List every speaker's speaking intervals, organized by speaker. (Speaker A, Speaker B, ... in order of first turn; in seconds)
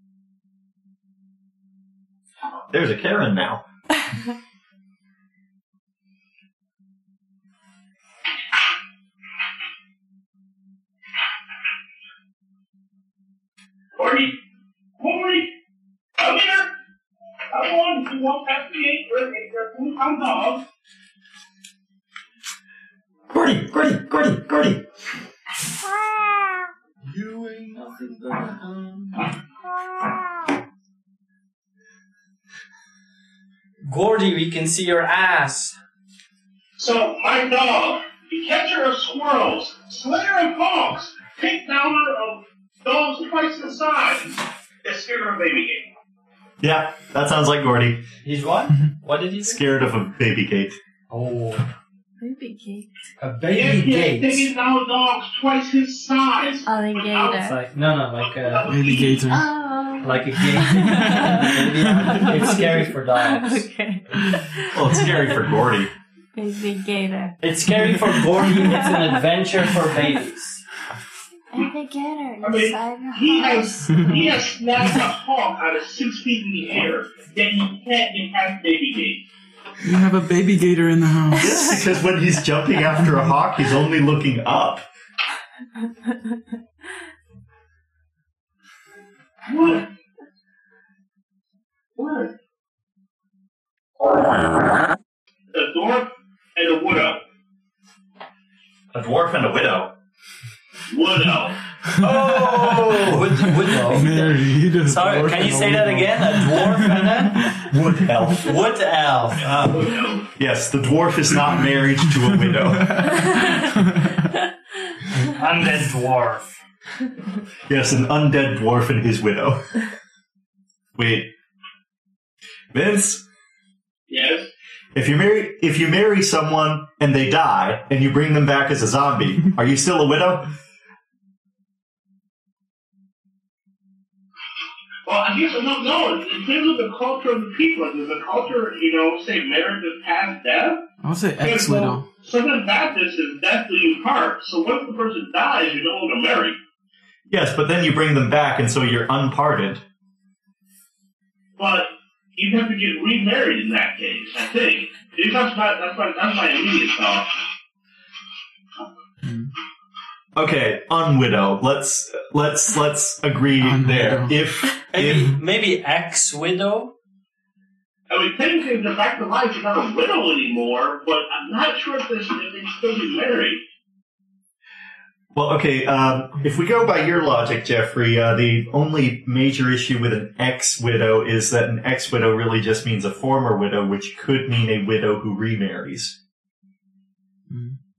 Speaker A: 2.7-3.6, 23.3-24.8, 27.1-27.7, 46.6-48.0, 49.4-50.8, 64.7-65.9, 81.3-84.8, 98.9-99.9, 102.0-103.5, 107.6-108.6, 110.4-113.1, 117.7-119.7, 121.0-121.3, 122.7-123.2, 124.9-130.5, 147.3-149.8, 160.3-165.3, 175.3-186.2
Speaker B: 13.9-14.4, 15.0-15.5, 16.2-16.7, 17.5-20.6, 36.8-45.9, 53.5-57.4, 58.1-59.4, 72.4-79.2, 89.5-89.9, 92.0-92.3, 95.5-97.2, 100.9-101.6, 109.5-110.3, 124.1-124.5, 135.1-140.8, 141.4-146.6, 151.6-157.3, 168.1-173.6
Speaker C: 27.1-29.2, 33.8-35.8, 48.2-49.6, 51.1-51.7, 53.2-54.5, 57.4-58.7, 60.0-63.6, 67.4-70.6, 102.4-107.5, 108.4-110.0, 115.1-116.5, 164.9-166.9
Speaker D: 52.2-52.9, 56.6-57.6, 59.3-61.6, 62.1-65.5, 66.3-67.4, 68.6-69.2, 71.5-74.4
Speaker E: 58.7-59.5, 60.9-62.7, 79.8-81.7, 103.6-107.7, 112.8-114.0, 141.0-142.1, 159.2-159.5, 163.6-164.4, 187.5-187.8